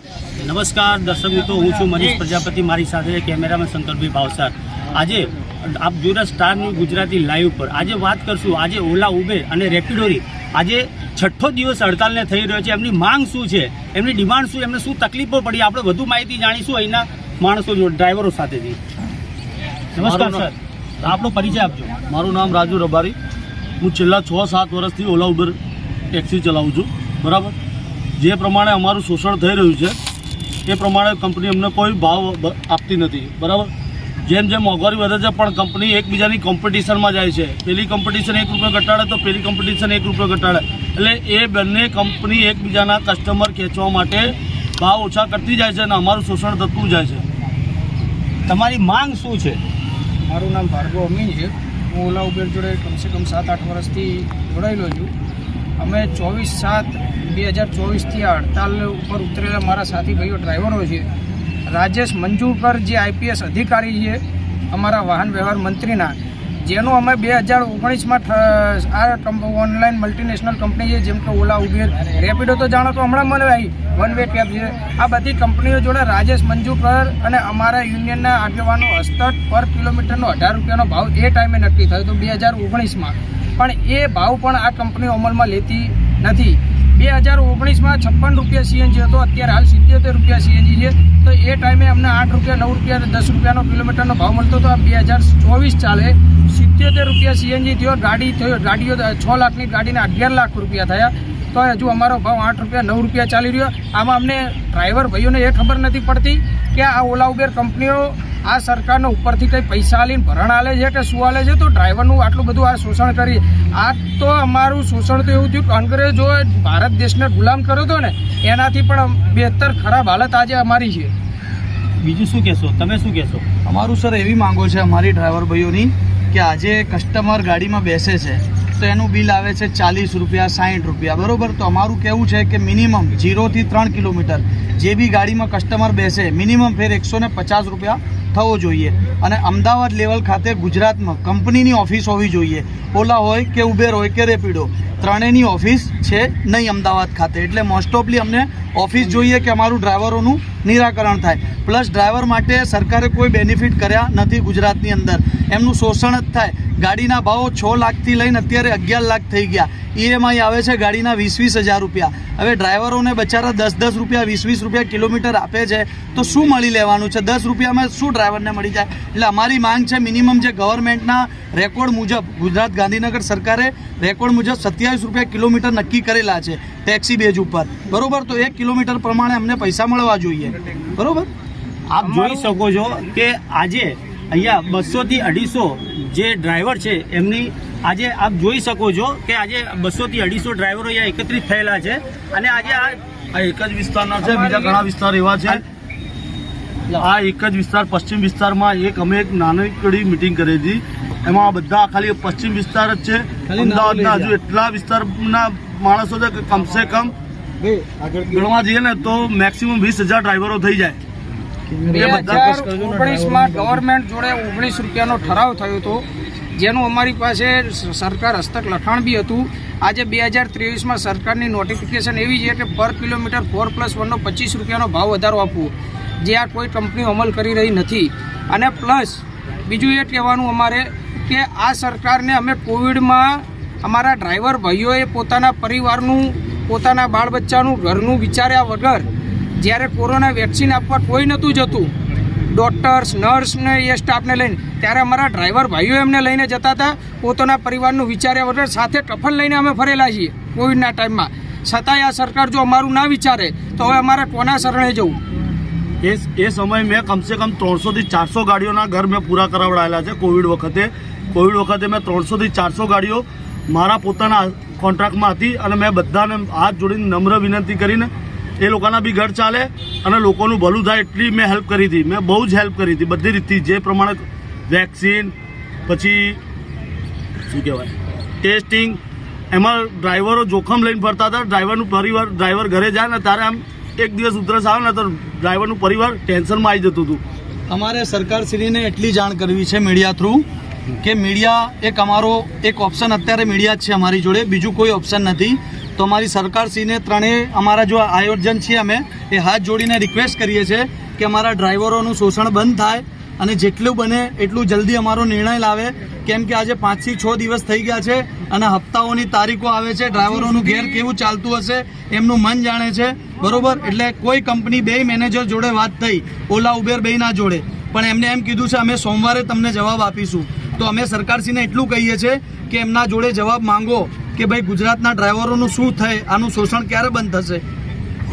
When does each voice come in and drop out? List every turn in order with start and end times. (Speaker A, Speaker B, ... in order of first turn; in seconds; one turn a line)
Speaker A: 0.4-18.8
Speaker A: 19.9-21.9
Speaker B: 20.0-20.5
Speaker B: 22.1-23.1
Speaker B: 23.8-25.5
Speaker B: 26.1-27.5
Speaker B: 28.2-30.0
Speaker B: 30.7-33.7
Speaker B: 34.2-47.2
Speaker A: 48.5-49.6
Speaker C: 50.2-55.1
Speaker C: 55.8-61.1
Speaker C: 61.7-121.1
Speaker A: 122.0-123.4
Speaker D: 123.6-181.3
Speaker A: 181.9-193.0
Speaker C: 182.0-182.5
Speaker B: 193.3-195.6
Speaker C: 194.2-194.8
Speaker B: 197.0-207.1
Speaker D: 203.5-204.3
Speaker D: 207.6-208.4
Speaker B: 208.3-211.0
Speaker D: 211.7-213.8
Speaker C: 211.9-241.9
Speaker B: 211.9-212.5
Speaker C: 242.5-255.2
Speaker B: 256.0-275.3
Speaker B: 275.9-276.4
Speaker B: 277.5-279.0
Speaker B: 279.5-287.2
Speaker D: 287.7-290.4
Speaker D: 291.0-327.6
Speaker C: 310.2-311.0